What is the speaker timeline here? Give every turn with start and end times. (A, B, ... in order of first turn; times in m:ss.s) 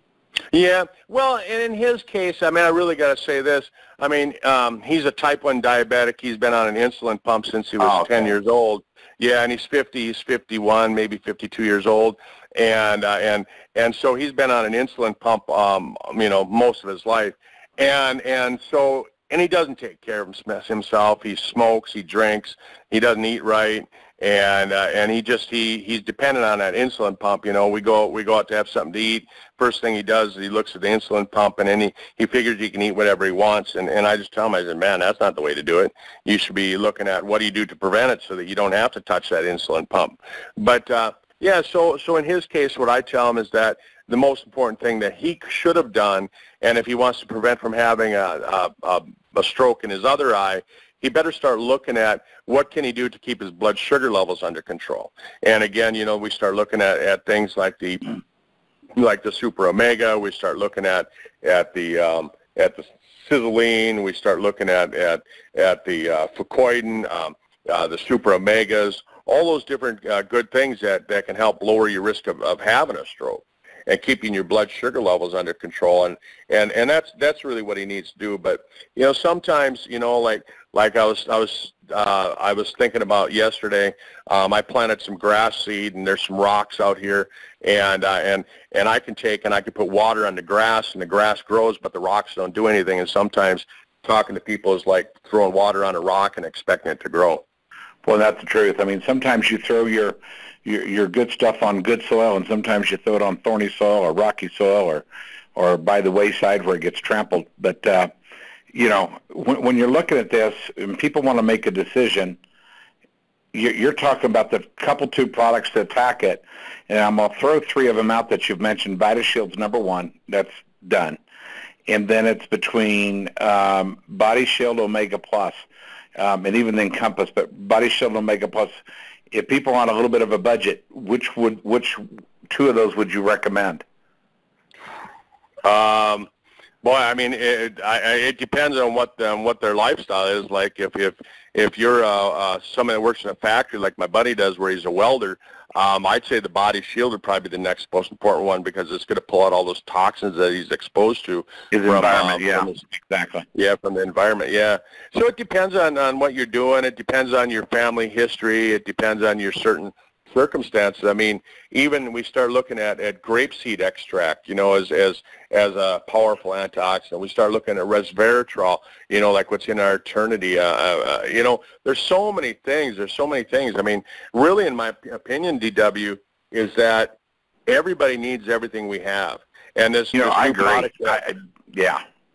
0:00.5-0:58.2 A
0:07.8-0:08.1 B
0:59.0-1:37.4 A
1:38.0-1:48.1 B
1:48.7-1:52.4 B
1:53.5-2:01.2 B
2:01.9-2:05.6 B
2:06.2-2:08.8 B
2:09.3-2:13.8 B
2:15.6-2:16.3 A
2:16.8-2:32.8 A
2:31.7-2:33.4 B
2:33.6-2:57.2 A
2:57.7-3:01.2 A
3:00.1-3:02.0 B